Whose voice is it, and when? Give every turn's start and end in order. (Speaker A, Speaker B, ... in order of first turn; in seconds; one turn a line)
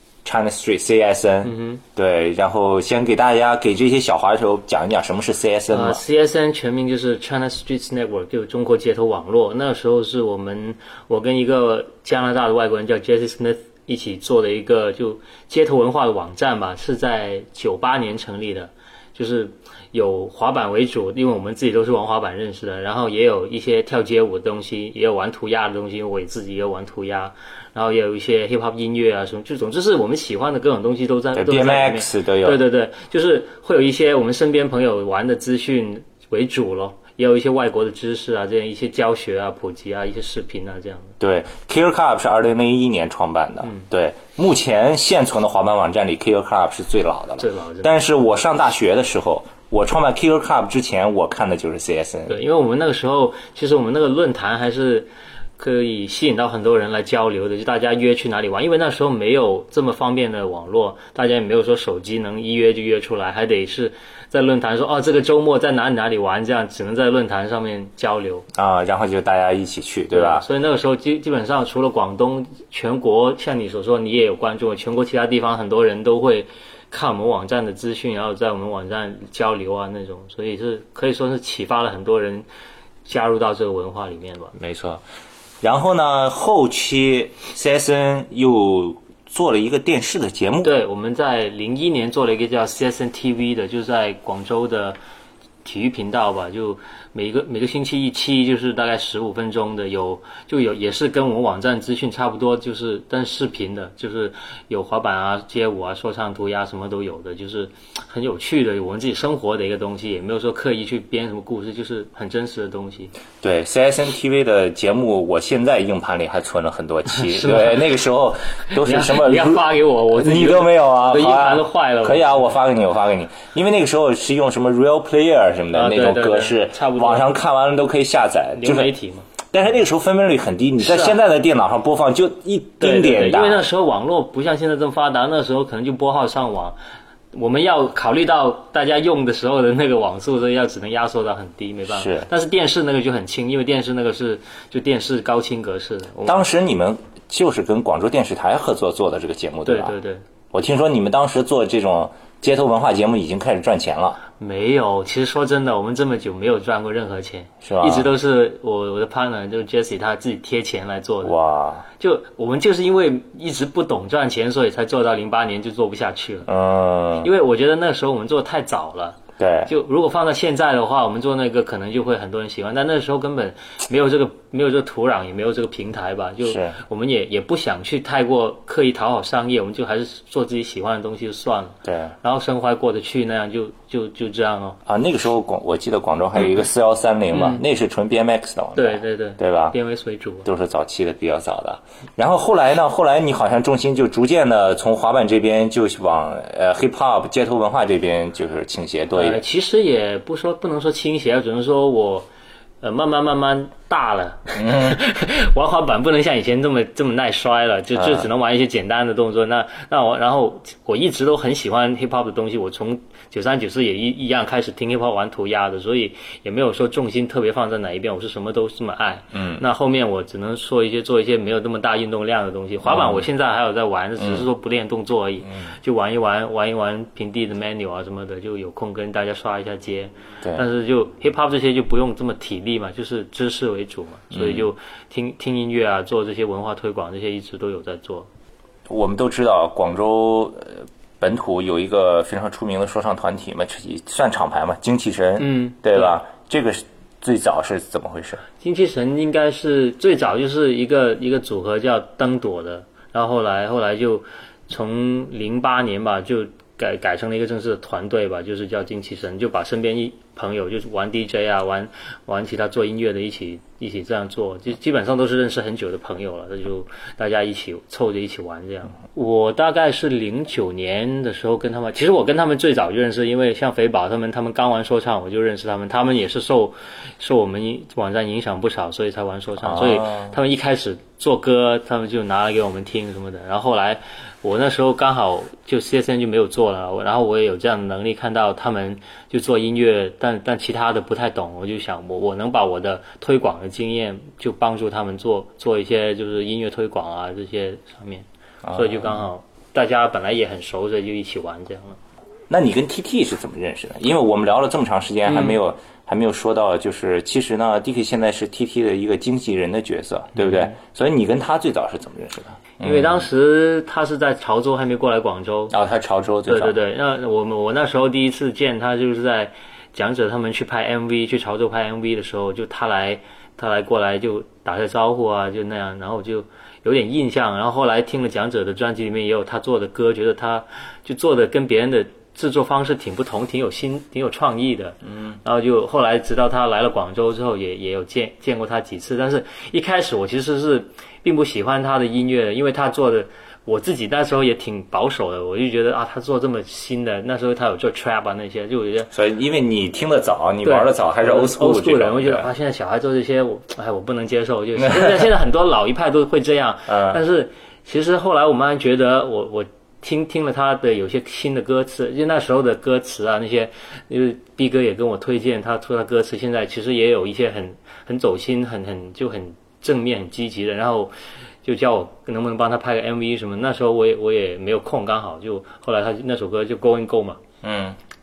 Speaker A: 0.2-6.0
Speaker B: 1.4-1.8
Speaker B: 5.7-41.1
Speaker A: 31.3-32.6
Speaker A: 41.2-52.4
Speaker B: 47.4-48.0
Speaker B: 52.3-68.5
Speaker A: 68.5-70.4
Speaker B: 70.1-82.5
Speaker B: 83.0-84.5
Speaker A: 84.5-85.0
Speaker A: 85.6-90.7
Speaker B: 90.6-95.0
Speaker B: 95.6-113.1
Speaker A: 113.4-128.9
Speaker B: 117.1-117.8
Speaker B: 118.7-122.5
Speaker B: 125.7-127.3
Speaker B: 128.6-129.3
Speaker A: 129.5-133.6
Speaker B: 130.8-131.2
Speaker B: 132.8-136.8
Speaker B: 137.3-146.4
Speaker A: 141.9-142.3
Speaker A: 146.2-149.9
Speaker B: 149.7-150.2
Speaker A: 150.5-154.2
Speaker B: 154.4-161.3
Speaker A: 157.6-158.1
Speaker A: 161.2-161.8
Speaker B: 162.0-166.5
Speaker A: 166.5-167.3
Speaker B: 167.2-184.8
Speaker A: 169.4-169.7
Speaker A: 176.4-176.8
Speaker A: 181.8-182.1
Speaker A: 184.8-189.8
Speaker B: 187.3-187.6
Speaker B: 188.8-190.5
Speaker A: 190.4-199.4
Speaker B: 199.1-202.3
Speaker B: 202.8-238.3
Speaker A: 204.6-205.0
Speaker A: 207.9-208.3
Speaker A: 219.3-219.6
Speaker A: 222.8-223.3
Speaker A: 224.2-224.4
Speaker A: 234.3-234.7
Speaker A: 238.9-248.4
Speaker B: 245.4-246.2
Speaker B: 248.6-302.0
Speaker A: 279.6-280.4
Speaker A: 298.6-299.2
Speaker A: 302.5-313.2
Speaker B: 305.3-305.6
Speaker B: 310.4-310.7
Speaker B: 312.8-315.7
Speaker A: 315.7-316.8
Speaker B: 316.5-349.1
Speaker A: 349.1-352.5
Speaker B: 350.6-377.4
Speaker A: 354.8-355.1
Speaker A: 356.9-357.2
Speaker A: 377.6-378.0